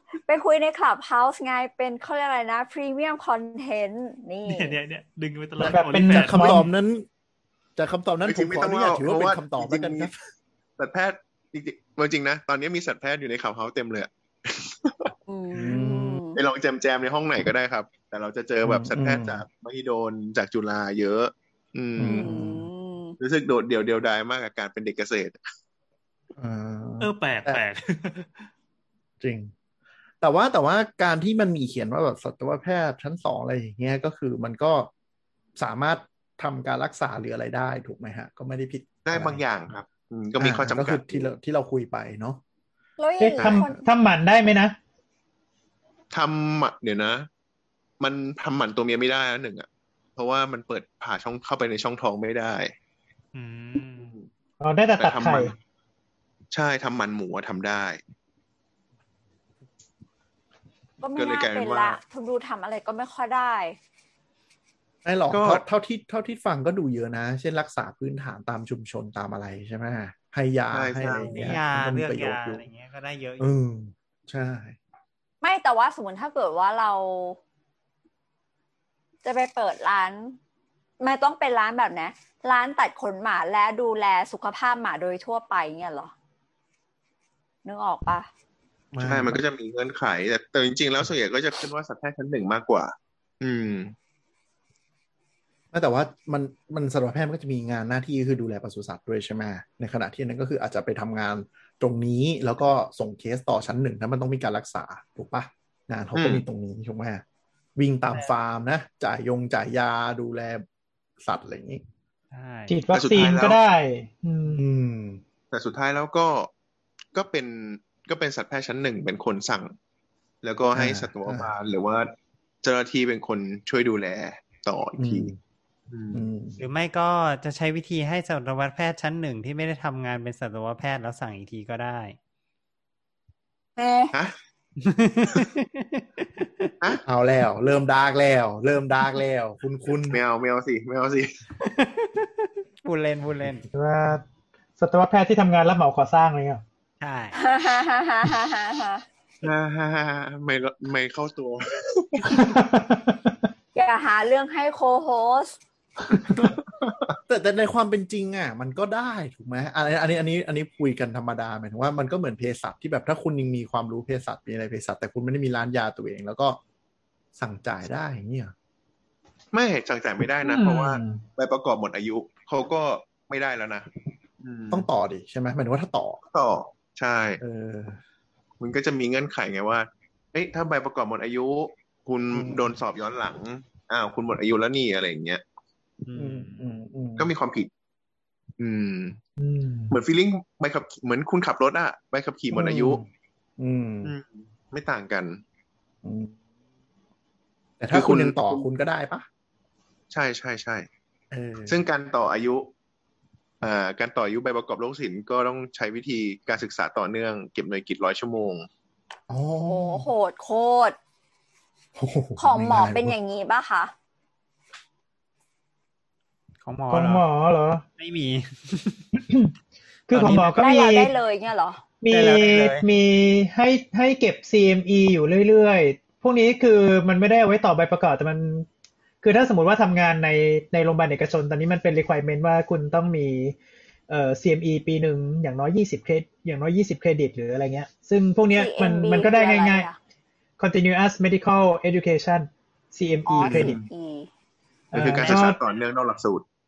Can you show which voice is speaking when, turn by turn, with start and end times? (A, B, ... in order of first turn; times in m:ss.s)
0:00.3-0:04.8 A
0:04.5-0:06.4 B
0:05.6-0:06.7 C
0:05.6-0:07.1 D
0:07.8-0:10.1 D
0:08.2-0:10.1 E
0:10.8-0:15.1 E
0:15.3-0:16.4 A
0:15.5-0:16.2 D
0:16.3-0:22.3 E
0:18.6-0:19.4 D
0:22.0-0:22.7 D
0:22.0-0:23.2 A
0:23.2-0:25.4 E
0:26.4-0:27.7 D
0:27.0-0:28.5 B
0:29.2-0:29.5 D
0:30.2-0:34.9 D
0:35.6-0:39.4 D
0:39.0-0:41.3 E
0:40.4-0:42.4 D
0:43.0-0:43.8 A
0:43.2-0:44.8 C
0:43.4-0:43.7 E
0:46.1-0:47.3 E
0:48.0-0:52.7 E
0:53.3-0:54.2 B
0:54.0-0:54.3 E
0:54.6-0:55.5 C
0:55.0-0:55.6 E
0:56.5-0:58.0 E
1:01.0-1:03.8 A
1:01.2-1:02.0 E
1:05.0-1:12.7 D
1:05.3-1:05.6 E
1:10.7-1:11.6 E
1:11.3-1:13.5 F
1:13.4-1:14.8 D
1:15.4-1:17.4 A
1:19.2-1:20.4 A
1:21.0-1:26.1 A
1:27.6-1:28.3 A
1:28.9-1:29.4 D
1:29.0-1:33.9 E
1:35.7-1:47.2 D
1:46.2-1:46.4 E
1:47.8-1:50.6 D
1:51.2-1:51.8 D
1:52.3-1:52.9 F
1:52.7-1:54.6 C
1:52.9-1:53.6 E
1:54.5-1:55.2 D
1:55.5-1:56.5 E
1:57.1-1:59.7 E
2:00.4-2:02.1 E
2:00.7-2:01.5 D
2:02.6-2:05.3 E
2:05.0-2:05.4 D
2:05.9-2:06.2 E
2:06.1-2:06.6 D
2:06.6-2:12.2 F
2:13.8-2:14.1 A
2:14.8-2:16.7 F
2:17.1-2:20.2 D
2:20.1-2:21.5 E
2:21.6-2:23.7 F
2:23.7-2:24.2 C
2:24.8-2:26.6 C
2:27.0-2:27.4 F
2:27.3-2:29.0 A
2:29.4-2:32.5 E
2:32.3-2:33.4 C
2:33.7-2:35.6 A
2:36.2-2:37.2 E
2:37.3-2:46.6 D
2:47.4-2:48.5 D
2:49.5-2:53.9 E
2:50.4-2:51.2 C
2:54.4-2:54.9 E
2:54.7-2:56.2 D
2:56.3-2:57.4 E
2:57.4-2:58.0 D
2:58.6-3:05.4 E
3:02.3-3:02.7 D
3:06.1-3:06.7 F
3:06.2-3:07.3 D
3:07.2-3:07.7 E
3:08.6-3:09.2 E
3:09.4-3:10.0 C
3:09.9-3:13.0 E
3:12.5-3:14.1 D
3:14.0-3:15.4 E
3:16.0-3:16.3 D
3:17.8-3:19.3 D
3:17.9-3:18.7 E
3:20.1-3:20.9 E
3:21.3-3:21.8 D
3:21.7-3:22.7 E
3:23.6-3:28.7 E
3:29.3-3:30.1 D
3:29.6-3:31.0 A
3:32.0-3:33.2 D
3:32.4-3:33.9 A
3:36.6-3:37.3 F
3:36.9-3:37.8 C
3:38.0-3:39.1 F
3:39.1-3:39.6 C
3:40.1-3:41.1 C
3:40.1-3:40.8 F
3:40.5-3:41.8 A
3:42.0-3:48.7 C
3:42.1-3:42.9 F
3:49.2-3:53.6 C
3:54.1-3:59.9 C
3:58.5-4:00.0 A
4:00.6-4:03.8 C
4:03.3-4:04.3 A
4:03.4-4:03.8 E
4:04.9-4:05.6 C
4:04.9-4:06.4 E